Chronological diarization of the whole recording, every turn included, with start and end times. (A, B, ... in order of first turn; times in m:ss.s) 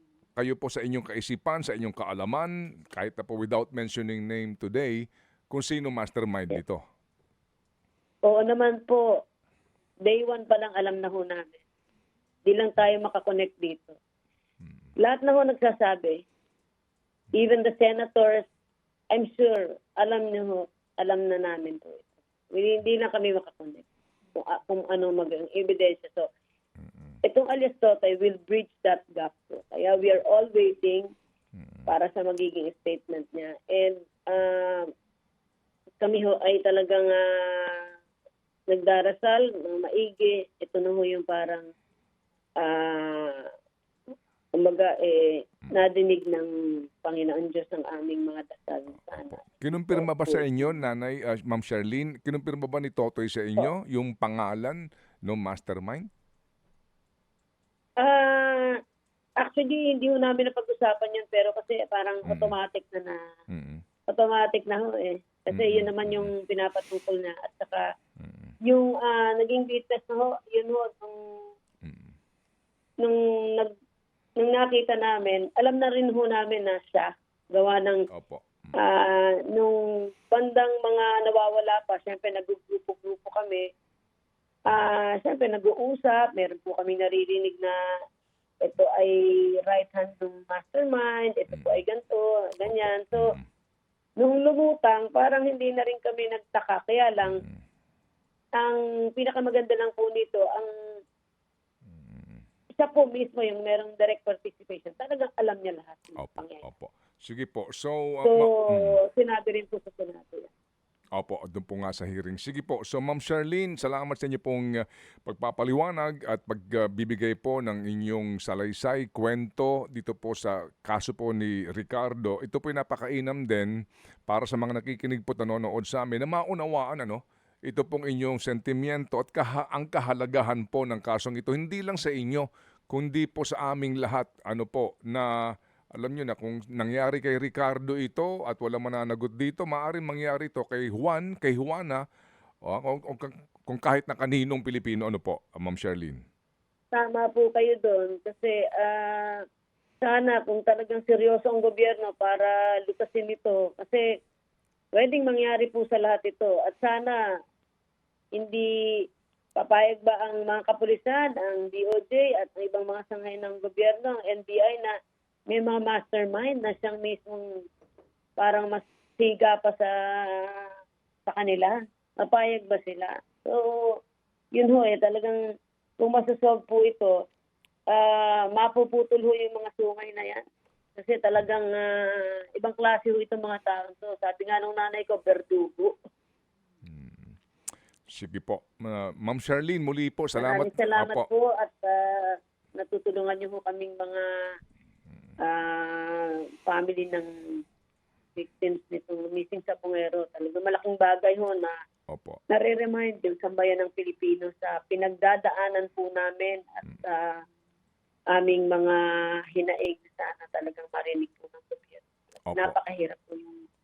0:00.4-0:06.8 A
0:08.2-0:09.0 B
0:10.0-0:11.6 B
0:12.4-0:14.0 B
0:15.0-0:16.2 B
0:17.3-0:18.5 B
0:19.1-0:23.8 B
0:24.4-0:26.3 B
0:26.9-0:27.2 A
0:27.2-0:31.1 B
0:31.6-0:31.9 A
0:31.9-0:34.9 B
0:36.0-0:37.8 B
0:38.7-0:41.7 B
0:42.6-0:43.5 B
0:44.6-0:46.5 B
0:47.0-0:50.8 B
0:49.2-0:56.1 A
0:58.0-0:58.8 B
0:59.4-1:03.2 B
1:02.2-1:02.5 A
1:03.5-1:03.8 A
1:04.1-1:07.9 B
1:05.5-1:06.3 A
1:08.2-1:08.5 A
1:08.6-1:11.2 B
1:11.8-1:12.1 A
1:13.0-1:13.7 B
1:14.4-1:18.1 B
1:18.1-1:18.7 A
1:18.8-1:23.6 B
1:24.7-1:27.7 B
1:28.6-1:33.3 B
1:31.5-1:31.8 A
1:32.6-1:33.4 A
1:34.2-1:37.4 B
1:37.2-1:37.6 A
1:38.6-1:40.7 B
1:41.9-1:42.4 A
1:42.8-1:46.6 B
1:46.2-1:49.0 A
1:48.2-1:50.5 B
1:51.2-2:03.7 A
2:04.3-2:15.4 A
2:16.0-2:22.0 A
2:22.6-2:26.2 A
2:26.9-2:29.4 B
2:30.0-2:34.0 B
2:34.9-2:37.2 B
2:38.4-2:38.7 B
2:39.6-2:44.9 B
2:45.5-2:47.5 B
2:48.4-2:50.7 B
2:51.2-2:54.0 B
2:54.5-2:55.4 B
2:56.0-2:57.1 B
2:57.9-3:00.4 B
3:01.0-3:05.9 B
3:06.8-3:07.4 A
3:08.1-3:11.2 A
3:10.4-3:14.3 B
3:15.4-3:17.3 B
3:18.4-3:21.7 B
3:22.1-3:22.4 A
3:22.5-3:27.3 B
3:28.3-3:29.0 B
3:29.5-3:33.6 B
3:32.5-3:32.8 A